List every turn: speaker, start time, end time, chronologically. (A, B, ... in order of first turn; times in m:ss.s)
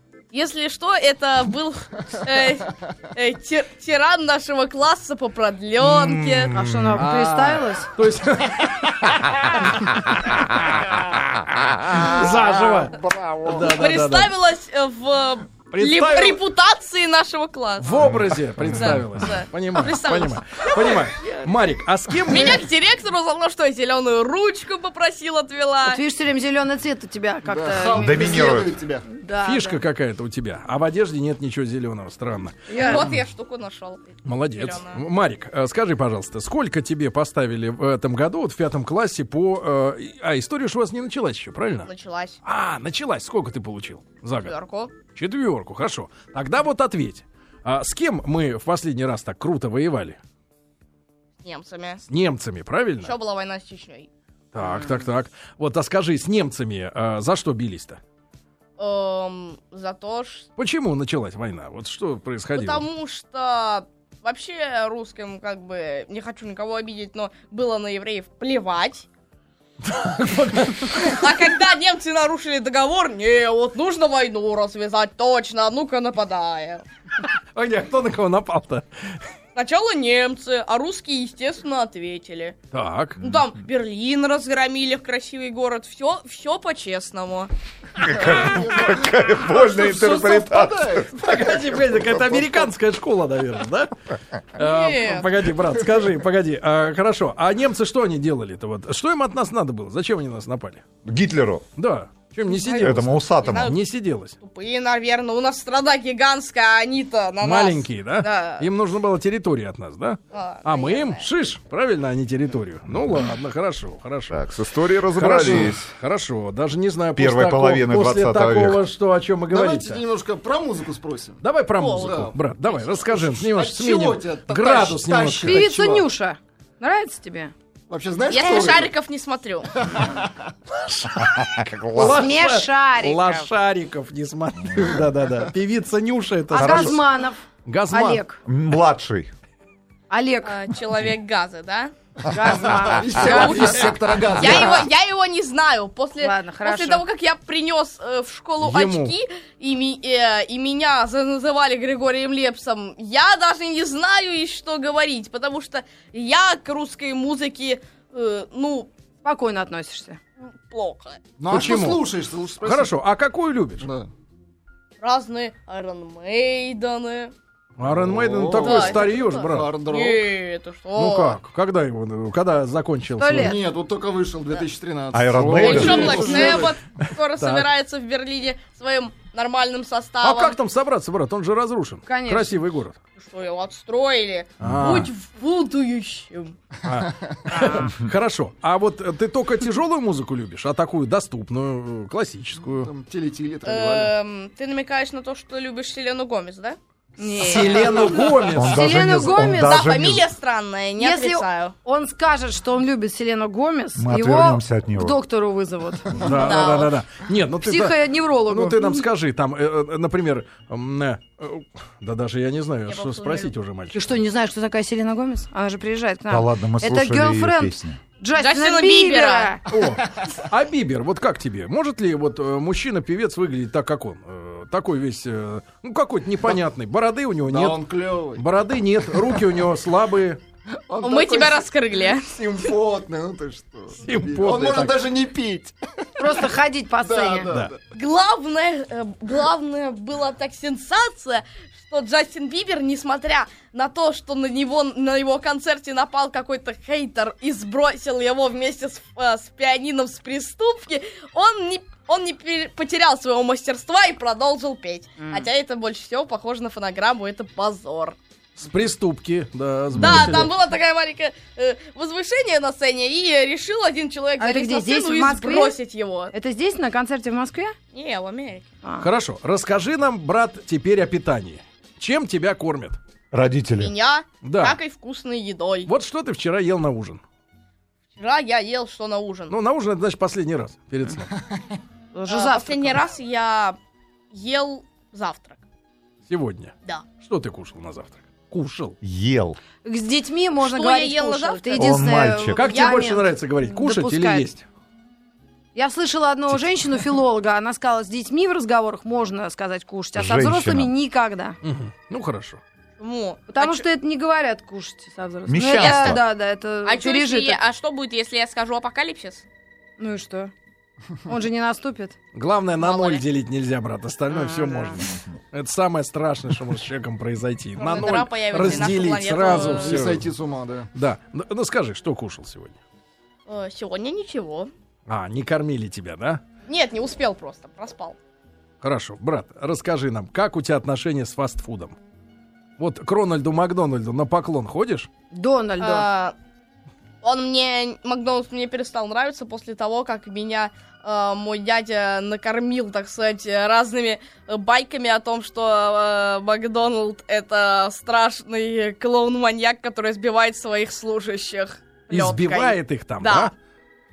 0:00.3-0:06.6 A
0:05.8-0:14.3 B
0:06.5-0:07.9 C
0:13.0-0:13.4 D
0:13.6-0:18.0 A
0:15.7-0:16.4 B
0:17.8-0:22.6 B
0:18.0-0:18.8 E
0:18.7-0:21.4 A
0:22.2-0:26.0 A
0:25.8-0:28.5 C
0:27.4-0:29.1 D
0:28.0-0:28.8 E
0:29.1-0:29.8 C
0:29.4-0:33.0 B
0:32.7-0:33.1 C
0:32.7-0:35.0 A
0:34.2-0:41.9 B
0:41.9-0:42.4 A
0:42.4-0:44.5 B
0:44.4-0:44.9 A
0:45.1-0:50.2 B
0:51.4-0:52.0 A
0:52.1-0:53.1 B
0:53.0-0:54.1 A
0:54.5-0:58.0 B
0:54.6-0:55.0 C
0:58.8-1:00.5 A
1:00.6-1:02.8 B
1:02.6-1:09.1 A
1:09.8-1:11.2 B
1:10.8-1:16.8 A
1:17.6-1:19.2 B
1:19.6-1:22.6 A
1:22.7-1:23.2 B
1:23.2-1:27.5 A
1:23.2-1:23.5 E
1:28.0-1:31.1 E
1:28.2-1:31.2 D
1:31.1-1:34.0 B
1:34.5-1:40.8 B
1:34.6-1:35.3 A
1:41.0-1:41.7 E
1:41.8-1:44.4 B
1:42.5-1:43.8 A
1:42.8-1:43.8 E
1:44.4-1:48.7 A
1:47.4-1:54.4 B
1:50.3-1:51.3 A
1:54.3-1:55.9 E
1:55.1-2:00.0 B
1:57.2-1:58.8 E
1:59.5-2:01.4 D
2:01.4-2:06.0 B
2:01.8-2:03.1 A
2:02.0-2:02.3 D
2:03.3-2:06.0 D
2:05.4-2:07.5 C
2:07.9-2:08.9 D
2:08.3-2:09.7 A
2:09.7-2:10.5 D
2:10.7-2:17.0 B
2:11.2-2:12.3 E
2:12.0-2:13.5 C
2:14.7-2:15.0 E
2:16.5-2:18.4 C
2:16.5-2:17.0 E
2:17.7-2:18.2 B
2:18.4-2:19.3 E
2:20.1-2:20.6 C
2:20.4-2:21.9 A
2:22.3-2:24.8 C
2:22.4-2:24.9 D
2:23.2-2:38.9 A
2:23.3-2:23.9 B
2:26.2-2:27.0 C
2:28.6-2:29.2 B
2:39.2-2:40.2 C
2:40.4-2:41.2 A
2:41.4-2:42.9 D
2:41.5-2:42.1 B
2:42.6-2:43.9 B
2:43.8-2:44.1 D
2:45.0-2:47.3 A
2:47.8-2:49.7 B
2:47.9-2:50.2 D
2:48.6-2:51.4 A
2:51.0-2:53.6 B
2:53.2-2:53.6 C
2:53.3-2:56.8 D
2:55.1-2:56.5 E
2:55.3-2:57.7 B
2:55.6-3:00.6 A
3:00.2-3:03.0 B
3:02.1-3:02.5 C
3:03.2-3:06.6 A
3:04.6-3:05.1 E
3:04.6-3:05.1 B
3:06.8-3:12.9 B
3:07.5-3:07.9 C
3:12.7-3:14.1 D
3:13.6-3:16.8 A
3:17.2-3:19.9 C
3:17.4-3:18.4 A
3:17.4-3:19.2 B
3:18.5-3:20.3 E
3:19.6-3:21.8 A
3:21.0-3:26.3 C
3:24.0-3:25.2 E
3:26.2-3:34.1 B
3:26.3-3:27.0 A
3:27.6-3:29.0 C
3:32.9-3:33.5 A
3:33.9-3:39.7 C
3:36.3-3:38.0 E
3:38.4-3:39.5 A
3:39.7-3:50.4 B
3:47.5-3:48.5 D
3:49.1-3:49.4 D
3:50.9-3:56.5 D
3:51.0-3:52.4 A
3:54.0-3:55.1 B
3:56.2-3:57.5 C
3:57.0-3:57.8 D
3:57.9-4:18.2 A
4:15.2-4:15.5 C
4:18.6-4:20.5 B
4:19.9-4:20.4 E
4:20.0-4:26.3 A
4:24.4-4:25.8 C
4:26.3-4:27.8 C
4:27.9-4:28.7 A
4:29.0-4:33.0 B
4:33.3-4:33.9 E
4:33.8-4:35.9 A
4:34.4-4:34.8 B
4:35.9-4:37.2 B
4:38.2-4:39.5 A
4:39.5-4:41.3 B
4:42.1-4:43.0 C
4:42.3-4:43.8 A
4:44.3-4:45.6 A
4:46.3-4:49.0 B
4:49.0-4:49.6 E
4:49.8-4:54.5 C
4:50.6-4:53.2 A
4:51.8-4:52.6 E
4:52.6-4:54.7 B
4:55.8-5:01.6 C
5:00.2-5:00.9 E
5:01.6-5:02.6 B
5:03.0-5:03.9 A
5:03.5-5:07.6 C
5:05.5-5:06.2 E
5:05.7-5:06.2 A
5:06.8-5:09.4 A
5:10.0-5:10.5 C
5:11.3-5:12.2 C
5:12.3-5:20.3 B
5:12.8-5:13.2 A
5:14.3-5:15.1 C
5:17.8-5:20.0 A
5:19.5-5:20.9 D
5:20.9-5:22.8 B
5:23.5-5:24.7 A
5:25.1-5:26.4 B
5:26.7-5:28.2 A
5:28.8-5:32.0 B
5:32.8-5:35.1 B
5:35.3-5:36.1 C
5:35.8-5:36.3 A
5:37.2-5:53.5 A
5:52.1-5:53.5 B